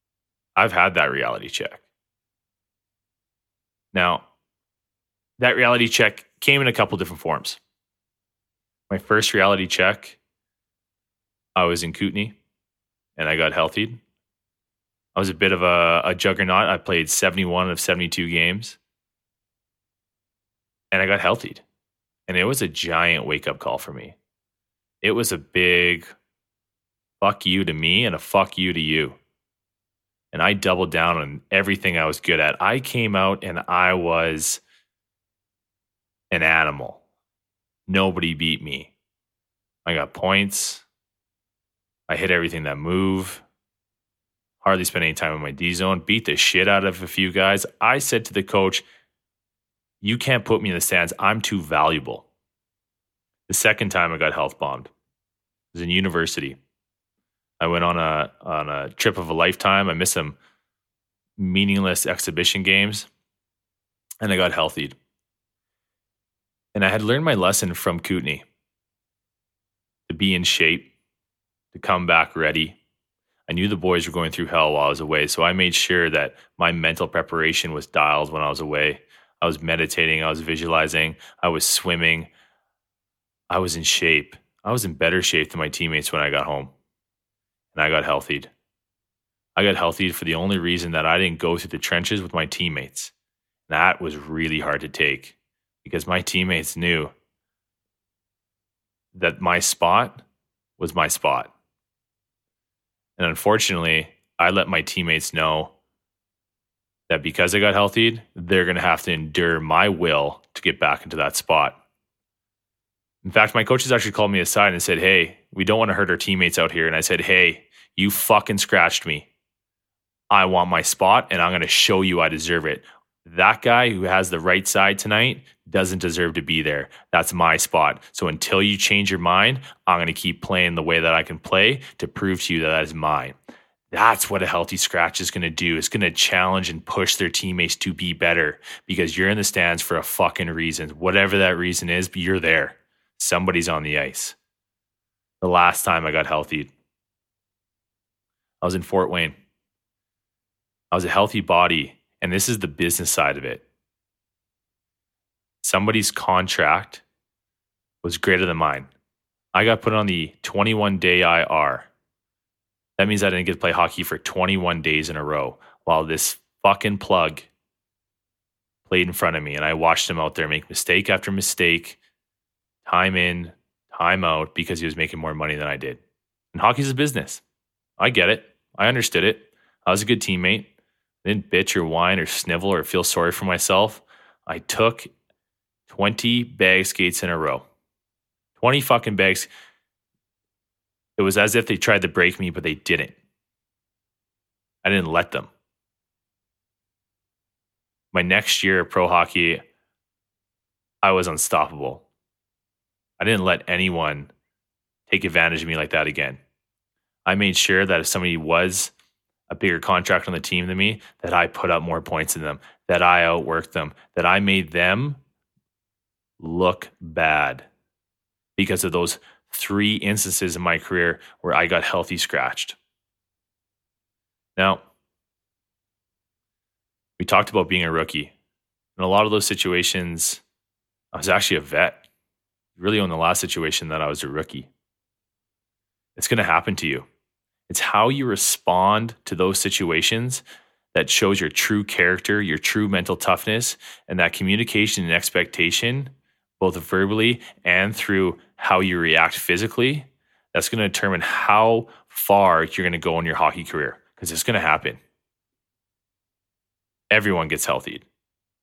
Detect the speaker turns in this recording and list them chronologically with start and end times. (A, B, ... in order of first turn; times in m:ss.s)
0:00.6-0:01.8 A
0:03.9-0:04.3 A
0:05.4-0:07.6 A
0:08.9-0:10.2 A
0:11.6-0:12.4 A
0:13.2-0:14.0 A
0:15.2-0:18.8 A
0:20.9-0:21.6 A
0:22.3-0:24.2 A
0:25.0-0:26.1 A
0:27.2-0:29.2 A
0:30.3-0:34.6 A
0:36.3-0:37.0 A
0:37.9-0:38.9 A
0:39.8-0:40.8 A
0:42.1-0:43.4 A
0:44.6-0:48.8 A
0:50.0-0:52.3 A
0:53.5-0:54.9 A
0:55.7-0:56.6 A
0:57.6-1:00.4 A
1:01.4-1:03.1 A
1:04.2-1:05.0 A
1:06.8-1:08.5 A
1:10.1-1:10.9 A
1:11.7-1:12.8 A
1:13.5-1:22.3 A
1:23.5-1:26.7 A
1:27.7-1:28.5 A
1:29.6-1:33.1 A
1:33.7-1:37.1 A
1:39.1-1:40.2 A
1:40.8-1:41.5 A
1:43.2-1:45.7 A
1:47.1-1:51.8 A
1:53.2-1:59.3 A
2:00.3-2:13.4 A
2:13.9-2:24.4 A
2:25.4-2:26.7 A
2:28.6-2:29.4 A
2:30.9-2:33.7 A
2:35.6-2:37.0 A
2:38.0-2:38.9 A
2:39.5-2:41.9 A
2:43.0-2:47.5 A
2:48.9-2:52.0 A
2:52.8-2:56.0 A
2:56.5-2:57.4 A
2:58.0-3:00.7 A
3:01.2-3:05.1 A
3:05.9-3:07.7 A
3:08.6-3:09.5 A
3:11.2-3:13.2 A
3:14.8-3:15.5 A
3:18.1-3:19.6 A
3:21.0-3:22.0 A
3:23.2-3:24.3 A
3:25.1-3:26.4 A
3:27.3-3:28.9 A
3:29.5-3:35.2 A
3:36.4-3:37.7 A
3:38.6-3:42.8 A
3:44.6-3:44.8 A
3:47.2-3:48.3 A
3:49.0-3:50.4 A
3:51.1-3:52.0 A
3:52.8-3:54.7 A
3:56.2-3:57.1 A
3:57.7-4:15.0 A
4:17.1-4:18.1 A